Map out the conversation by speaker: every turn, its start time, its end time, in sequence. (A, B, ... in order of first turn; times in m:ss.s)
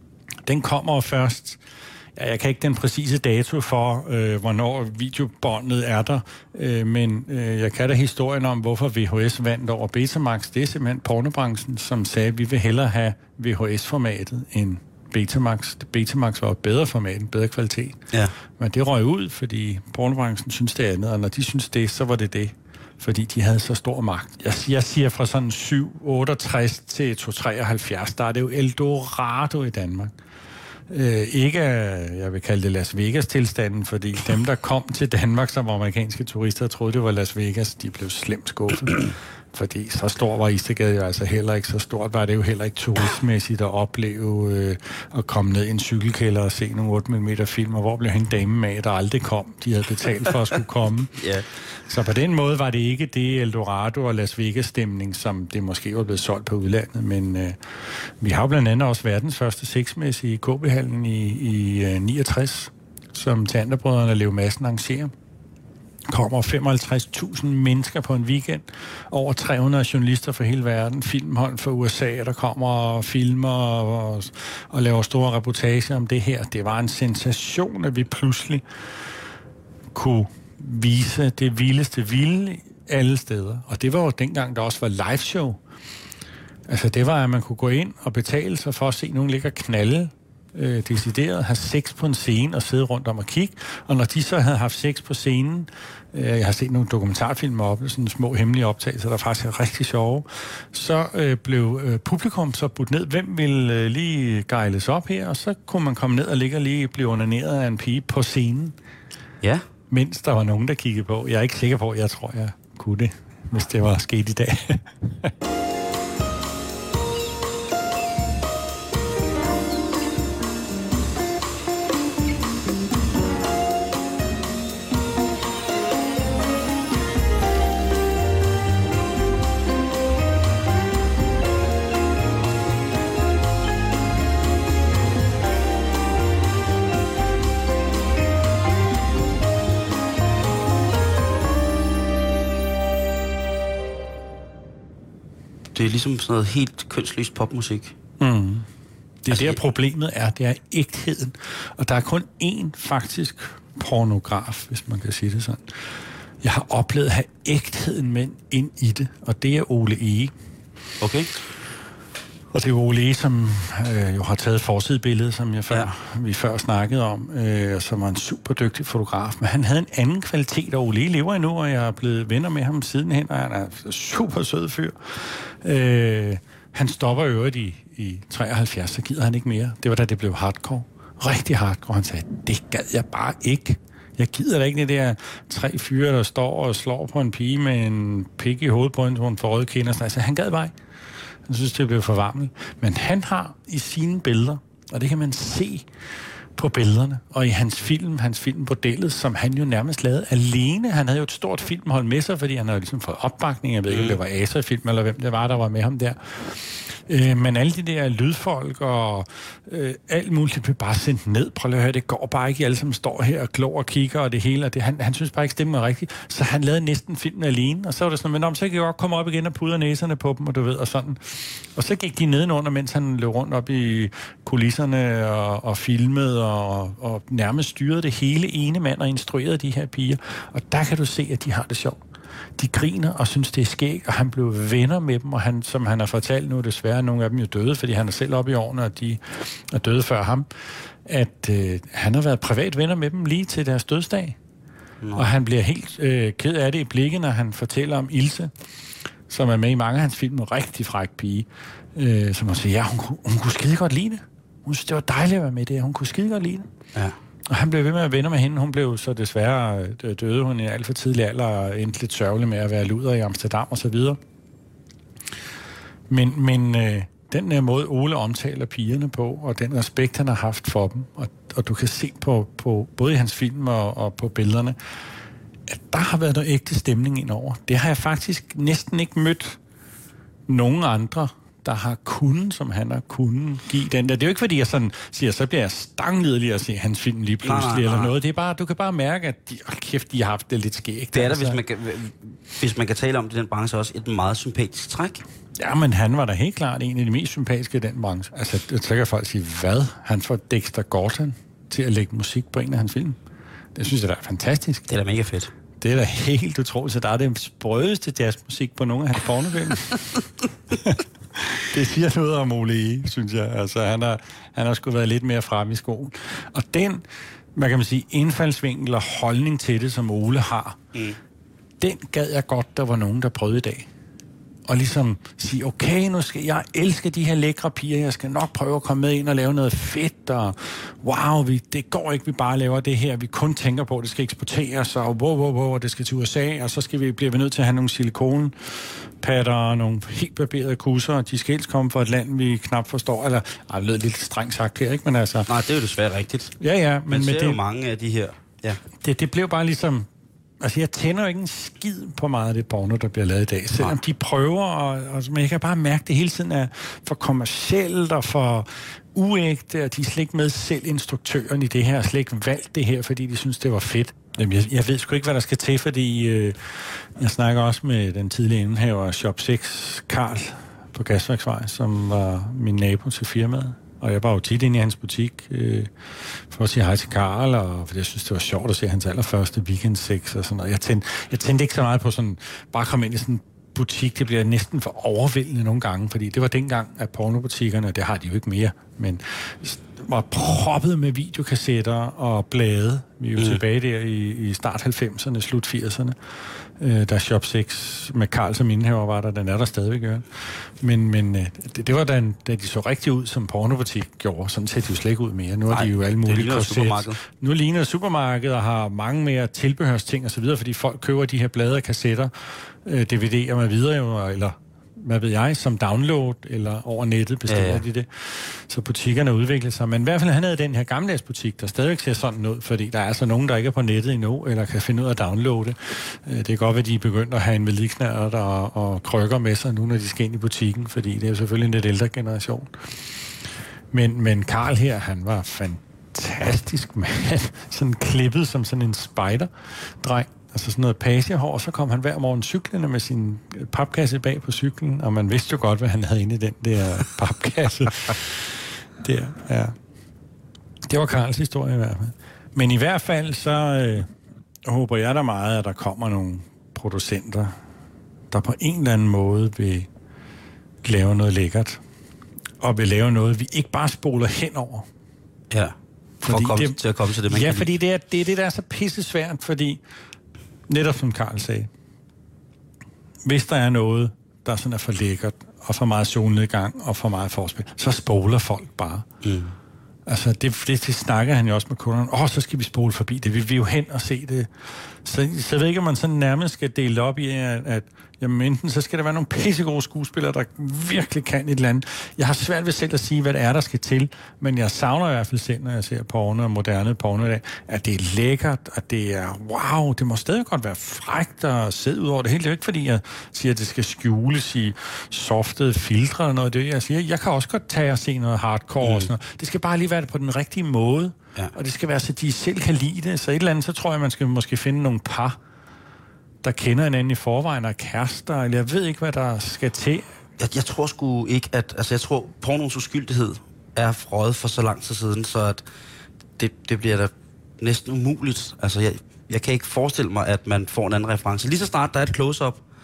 0:00.5-0:01.6 A
0:02.2-0:18.0 A
0:18.6-0:30.1 A
0:30.9-0:51.2 A
0:51.2-0:51.5 B
0:51.9-0:57.6 A
0:58.2-1:05.1 A
1:06.1-1:18.6 A
1:19.9-1:25.6 A
1:26.7-1:48.8 A
1:49.9-1:55.3 A
2:25.7-2:27.9 B
2:28.2-2:28.7 A
2:29.2-2:35.6 A
2:29.3-2:29.6 B
2:36.4-2:40.3 A
2:41.0-2:41.3 B
2:42.5-3:10.7 A
3:11.5-3:15.9 A
3:16.6-3:52.0 A
3:23.9-3:24.2 B
3:52.6-4:00.5 A
4:01.1-4:04.4 A
4:05.0-4:05.3 B
4:05.2-4:08.5 A
4:09.3-4:16.7 A
4:17.5-4:24.2 A
4:26.1-4:34.8 A
4:35.7-4:39.6 A
4:40.5-4:51.6 A
4:47.4-4:48.1 B
4:51.1-4:55.2 B
4:55.6-5:03.2 A
5:03.8-5:04.9 A
5:04.9-5:05.5 B
5:05.8-5:10.2 A
5:10.7-5:17.0 A
5:17.6-5:20.8 A
5:21.8-5:23.9 A
5:24.7-5:45.5 A
5:45.5-5:46.5 B
5:46.6-5:47.6 A
5:47.1-5:48.8 B
5:49.0-5:50.1 A
5:50.6-6:15.9 A
6:16.5-6:36.2 A
6:36.8-7:12.7 A
6:45.7-6:47.2 B
6:57.5-6:57.8 B
7:13.9-7:29.8 A
7:30.9-7:34.1 A
7:34.6-7:37.5 A
7:38.3-7:39.9 A
7:40.8-7:41.8 A
7:42.6-7:44.9 A
7:46.2-7:49.8 A
7:46.3-7:47.7 B
7:50.7-7:51.7 A
7:53.2-7:59.1 A
7:59.2-7:59.5 B
8:00.1-8:04.5 A
8:05.0-8:35.4 A
8:28.8-8:29.1 B
8:36.4-8:40.1 A
8:40.4-8:45.6 B
8:46.4-8:52.6 B